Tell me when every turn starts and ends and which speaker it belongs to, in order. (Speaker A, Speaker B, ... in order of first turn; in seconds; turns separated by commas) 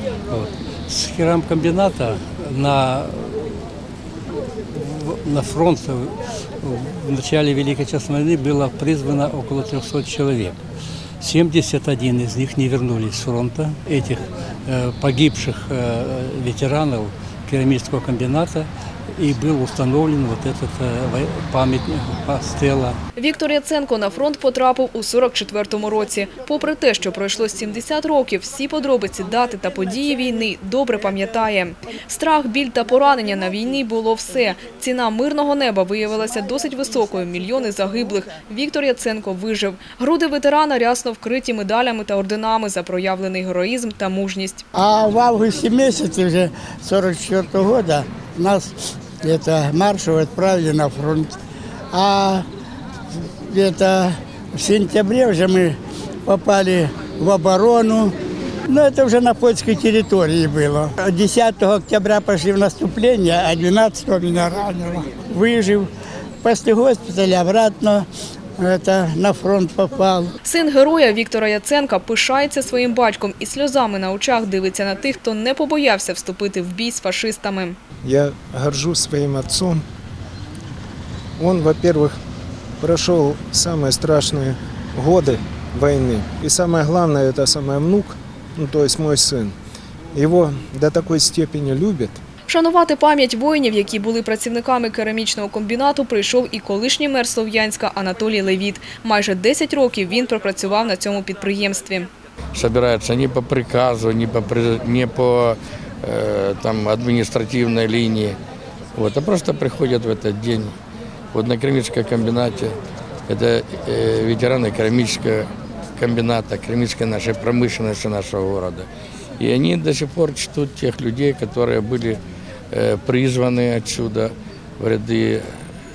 Speaker A: 0.3-3.5, Speaker A: 4.7-10.6, Speaker A: 11.2-23.0, Speaker B: 23.2-44.6, Speaker C: 44.7-51.3, Speaker C: 51.9-52.5, Speaker C: 53.5-58.1, Speaker C: 58.7-65.9, Speaker C: 66.4-68.1, Speaker C: 68.6-70.3, Speaker B: 70.5-77.8, Speaker D: 78.0-79.8, Speaker D: 81.4-82.2, Speaker D: 82.8-89.5, Speaker D: 90.2-92.2, Speaker B: 92.5-102.1, Speaker E: 102.5-108.4, Speaker E: 109.0-110.7, Speaker E: 111.3-112.8, Speaker E: 113.3-118.9, Speaker E: 119.4-122.2, Speaker E: 122.7-125.5